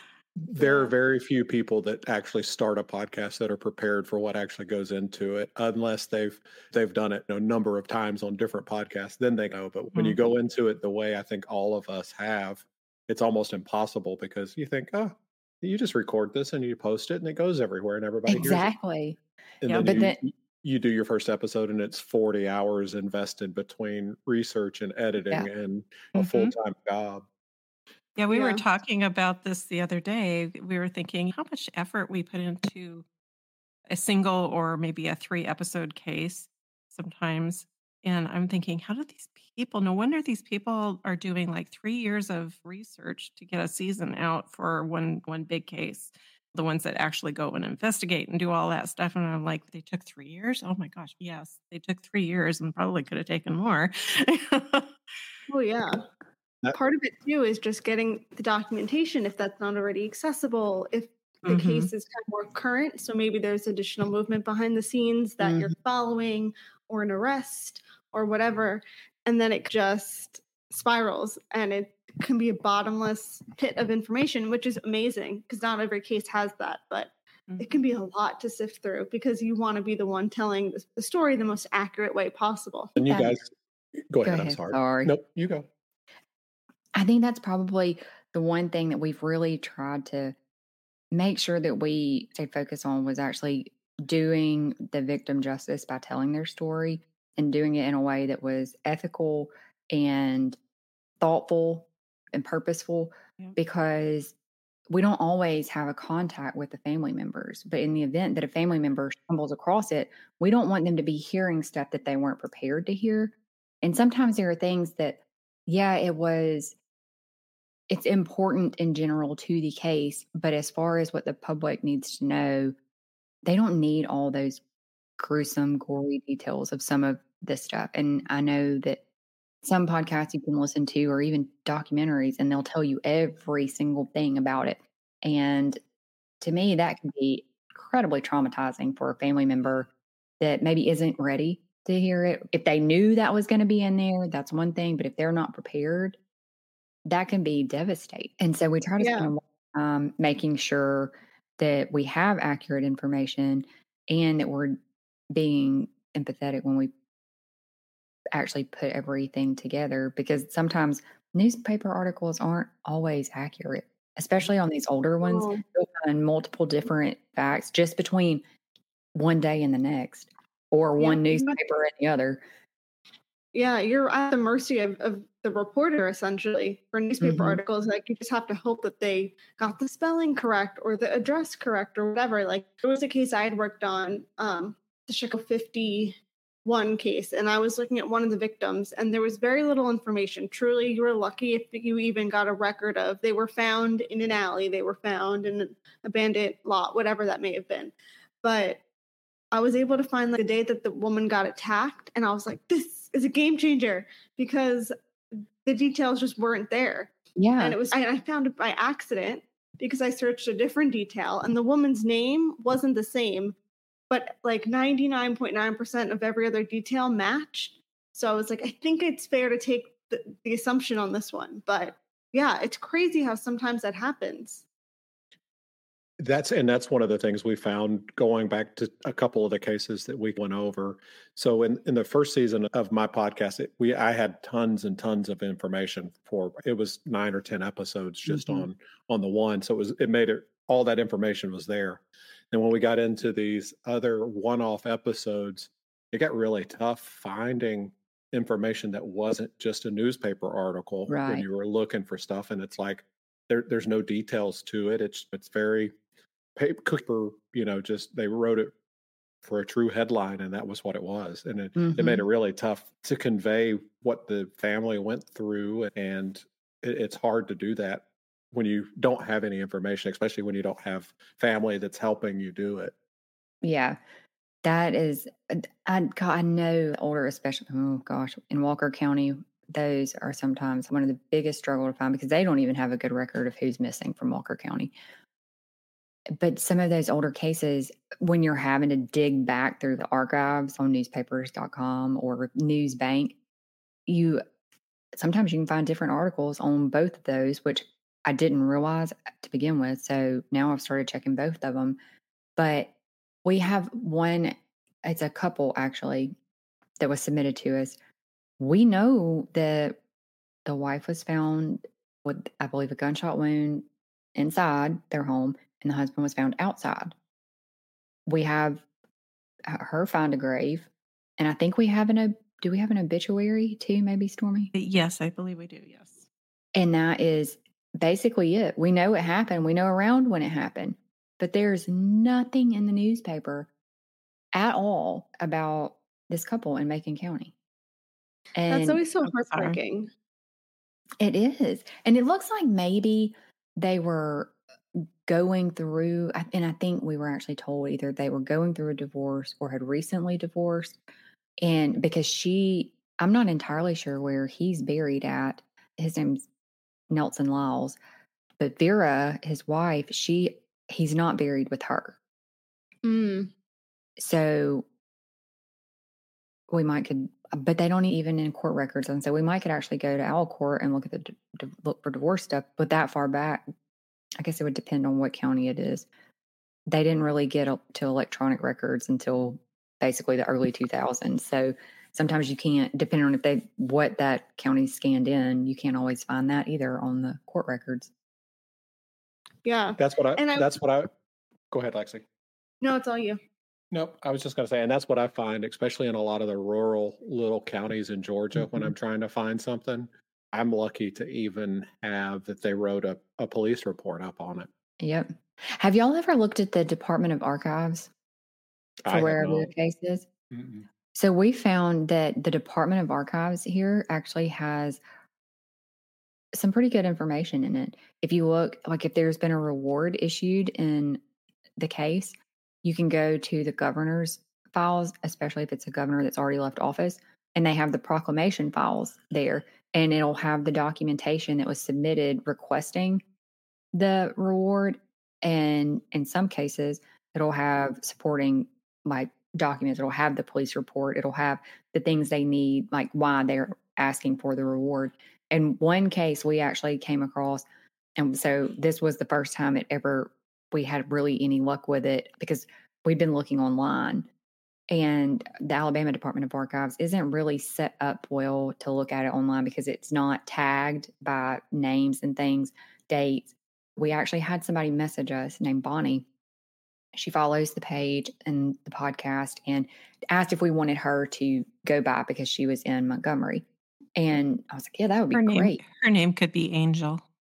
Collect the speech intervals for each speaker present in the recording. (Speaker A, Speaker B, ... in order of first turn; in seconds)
Speaker A: 0.5-18.7, 19.6-27.3, 83.0-83.5, 84.1-85.7, 226.2-255.9, 256.6-258.7, 259.4-272.9, 390.0-391.1, 391.7-392.2, 393.9-404.7, 409.1-409.7, 410.5-410.9
Speaker B: 9.9-10.2, 19.6-20.0, 26.2-26.5, 28.2-33.0, 33.9-54.9, 61.5-61.9, 77.5-77.8, 324.8-326.3, 339.5-339.8, 475.3-477.2
Speaker C: 18.3-19.2, 19.8-20.2, 65.4-65.7, 83.1-83.4, 84.2-85.1, 87.0-90.3, 91.1-100.6, 101.2-104.3, 104.9-116.8, 117.9-122.7, 123.5-124.6, 125.2-129.0, 129.6-135.8, 136.4-139.9, 140.4-146.2, 147.1-154.8, 155.3-156.9, 158.3-168.4, 169.2-172.4, 177.2-177.6, 207.4-207.8, 238.3-238.7, 251.1-251.4, 261.8-262.2, 273.6-274.0, 274.6-284.9, 286.4-293.4, 294.1-294.4, 295.2-302.0, 302.6-302.9, 303.4-306.4, 307.0-308.0, 308.6-310.0, 310.7-317.1, 318.3-318.8, 319.7-324.7, 326.8-333.7, 334.5-337.5, 338.6-339.0, 341.2-351.0, 351.6-356.4, 357.1-358.0, 358.6-362.2, 364.2-364.9, 366.7-373.6, 374.4-376.1, 376.9-388.1, 398.6-398.9, 405.0-408.1, 409.1-410.3, 411.1-415.0, 416.5-421.2, 421.8-433.2, 433.9-447.6, 448.2-454.3, 454.9-466.3, 467.1-473.6, 474.2-475.8
Speaker D: 28.3-28.6, 55.5-56.0, 56.7-82.9, 149.0-149.3, 165.2-165.6, 171.0-171.6, 173.5-198.8, 199.5-204.9, 205.6-213.6, 214.1-224.6, 338.7-340.1, 363.0-363.5, 389.6-390.7, 392.8-393.4